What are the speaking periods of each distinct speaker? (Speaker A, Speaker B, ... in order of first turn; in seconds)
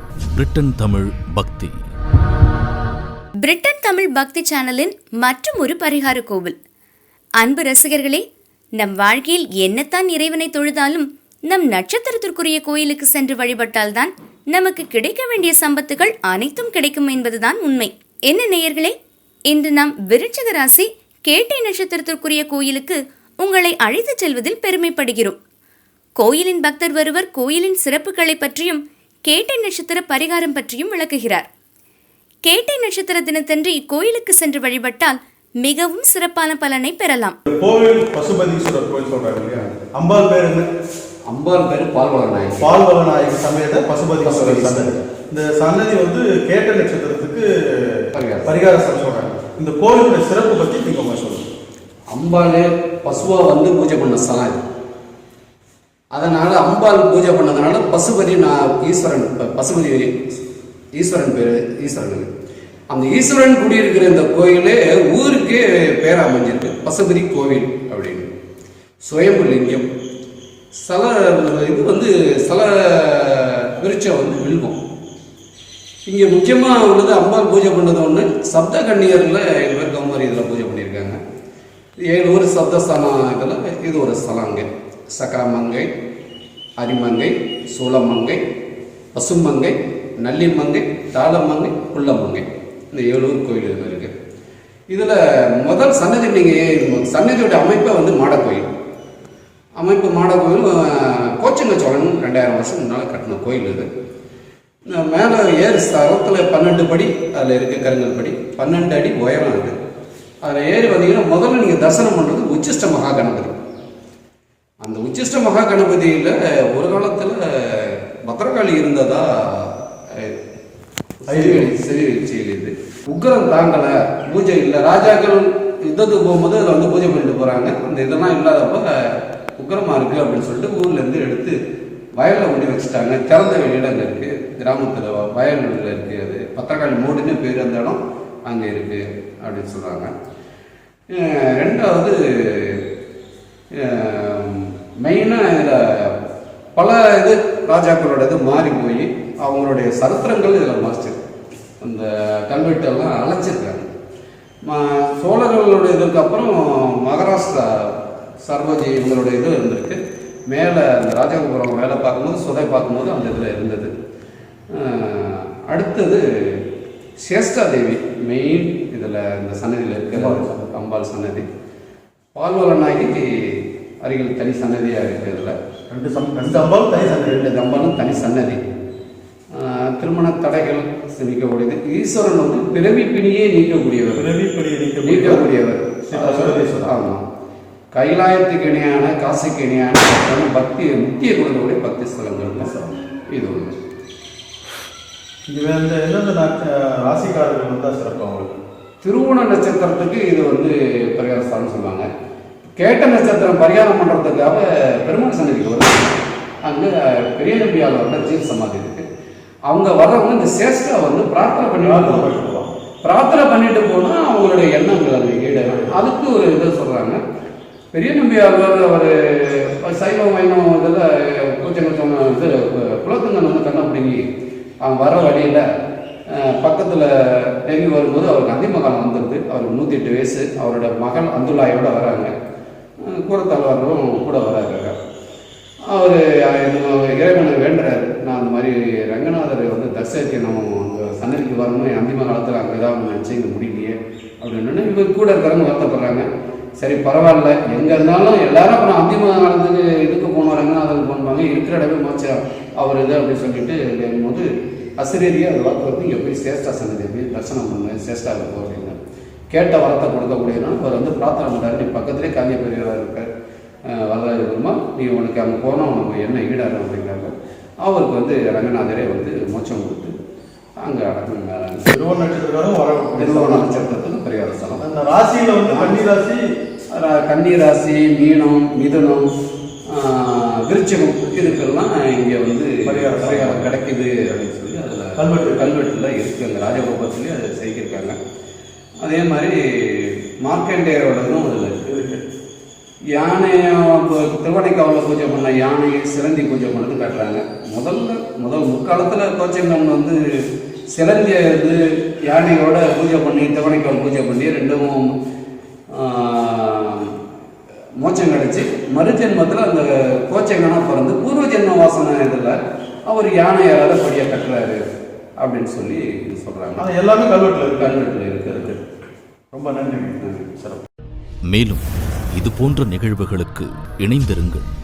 Speaker A: 0.3-1.8, 321.5-324.7
Speaker B: 3.4-6.5, 7.4-8.2, 8.8-18.9, 19.5-25.4, 26.2-31.5, 32.5-37.4
Speaker C: 37.5-40.7, 42.6-51.5, 121.3-121.7, 170.1-170.7, 175.9-177.4, 184.2-185.6, 186.1-186.9, 192.6-192.9, 195.5-198.5, 211.8-212.7, 215.7-216.0, 271.9-273.7, 274.8-276.4, 282.8-283.7, 285.2-285.6, 291.9-292.2, 316.8-318.8, 319.5-320.8
Speaker D: 41.3-42.7, 44.2-45.0, 48.1-48.5, 52.1-54.6, 56.1-60.1, 61.0-62.3, 62.9-68.3, 69.0-69.9, 70.8-74.8, 76.1-81.2, 82.1-85.9, 86.8-88.4, 89.1-94.1, 94.9-98.7, 99.8-103.9, 104.9-109.7, 110.4-113.5, 114.8-120.3, 121.2-131.6, 132.2-140.1, 141.1-142.8, 143.8-146.2, 146.8-151.2, 151.8-153.9, 154.7-157.9, 158.4-163.9, 164.7-166.6, 167.2-171.4, 172.3-175.6, 177.0-178.6, 179.6-184.3, 185.0-187.2, 187.9-192.7, 193.3-193.8, 199.0-202.1, 202.8-206.0, 206.6-209.0, 209.7-212.3, 213.0-217.2, 217.9-224.2, 224.8-225.7, 226.3-232.3, 233.1-234.9, 235.9-246.3, 246.8-254.5, 255.0-259.0, 259.5-263.3, 263.9-270.1, 270.8-271.9, 273.2-274.8, 275.7-276.0, 276.9-279.3, 279.9-288.1, 289.0-292.1, 293.1-305.1, 305.9-307.1, 308.0-312.6, 313.1-314.8, 315.4-316.9, 317.7-318.8, 320.2-320.5